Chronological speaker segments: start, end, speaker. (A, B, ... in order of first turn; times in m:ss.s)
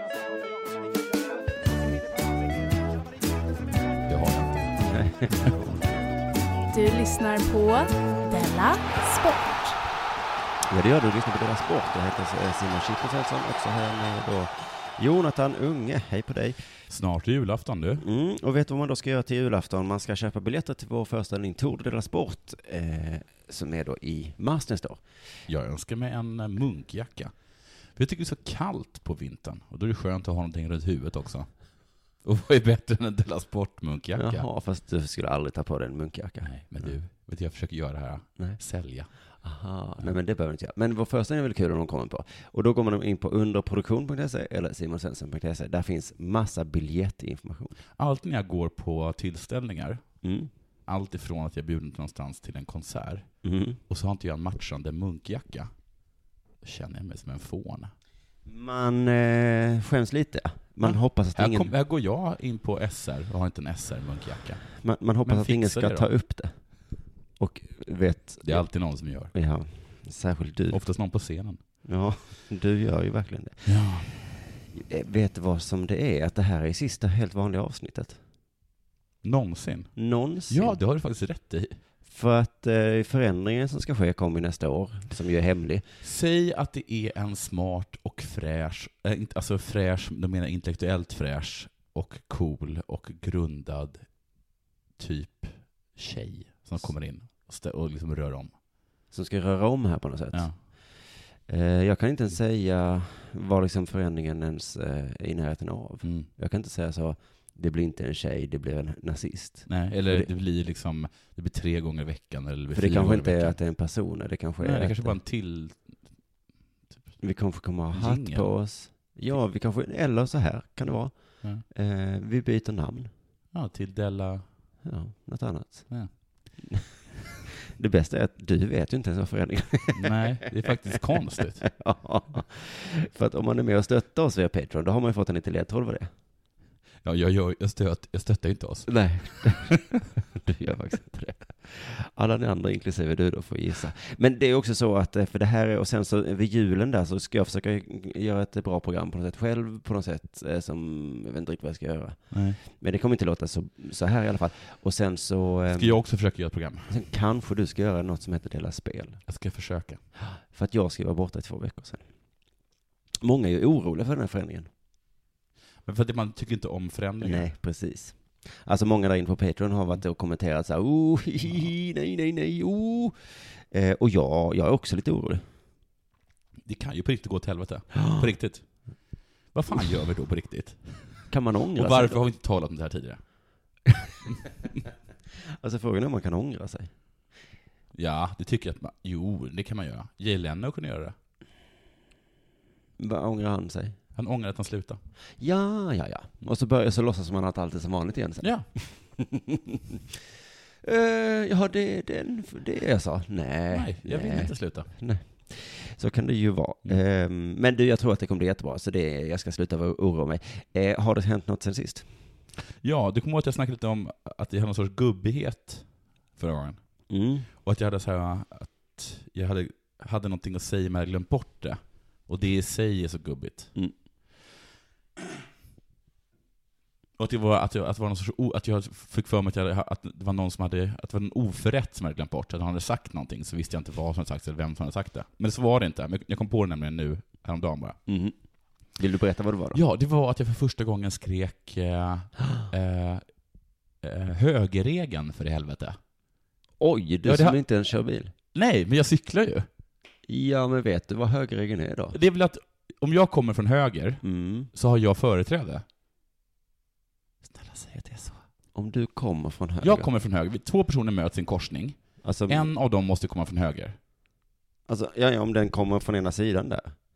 0:04.1-0:05.5 A
0:04.9-0:05.8 B
0:06.7-0:09.8 C
0:10.7-0:16.6 B
0:16.9-0:18.0 A
0:18.0-0:25.0 B
0:25.5-0:27.3 A
0:27.9-0:31.6 A
0:32.2-0:34.5 A
0:34.2-0:37.0 B
0:36.4-0:39.1 A
0:39.4-0:47.8 B
0:48.0-0:50.1 A
0:50.2-0:50.5 B
0:50.9-0:53.3 A
0:53.4-0:53.8 B
0:53.9-0:55.7 A
0:56.6-0:57.9 A
0:58.5-1:01.7 B
1:00.8-1:06.1 A
1:04.8-1:06.6 B
1:07.4-1:08.7 B
1:08.4-1:09.3 A
1:09.3-1:10.8 B
1:10.7-1:11.6 A
1:11.8-1:18.2 B
1:13.6-1:14.2 A
1:19.2-1:21.8 A
1:20.0-1:20.8 B
1:22.1-1:25.8 B
1:26.0-1:34.1 A
1:35.0-1:38.5 A
1:39.1-1:50.3 B
1:46.0-1:46.3 A
1:49.7-1:53.6 A
1:52.7-1:55.2 B
1:54.6-1:55.9 A
1:57.2-2:03.1 B
1:57.9-1:58.5 A
2:03.5-2:04.4 A
2:04.8-2:05.9 B
2:06.6-2:06.9 B
2:07.7-2:16.1 B
2:10.0-2:11.7 A
2:17.0-2:19.7 A
2:18.9-2:36.0 B
2:32.3-2:32.6 A
2:35.7-2:36.9 A
2:36.9-2:39.2 B
2:39.3-2:40.0 A
2:40.2-2:42.0 B
2:43.2-2:44.7 B
2:45.8-2:47.5 A
2:47.2-2:53.2 B
2:53.7-2:55.4 B
2:56.6-2:58.7 A
2:57.9-2:58.3 B
2:59.5-3:03.2 A
3:01.3-3:02.2 B
3:05.6-3:06.9 B
3:07.9-3:11.2 A
3:13.0-3:14.0 B
3:14.2-3:15.0 A
3:15.4-3:20.0 B
3:18.4-3:18.7 A
3:20.8-3:32.1 B
3:23.7-3:24.9 A
3:32.8-3:36.8 A
3:37.1-3:37.5 B
3:37.6-3:43.7 A
3:47.2-3:58.0 A
3:58.1-3:59.8 B
3:59.7-4:03.3 A
4:04.0-4:06.0 A
4:06.8-4:08.3 B
4:07.2-4:07.6 A
4:08.5-4:09.7 A
4:10.3-4:12.2 B
4:12.1-4:15.8 A
4:14.2-4:14.7 B
4:17.4-4:18.4 A
4:18.7-4:20.1 B
4:19.8-4:24.0 A
4:22.2-4:22.7 B
4:24.9-4:27.0 B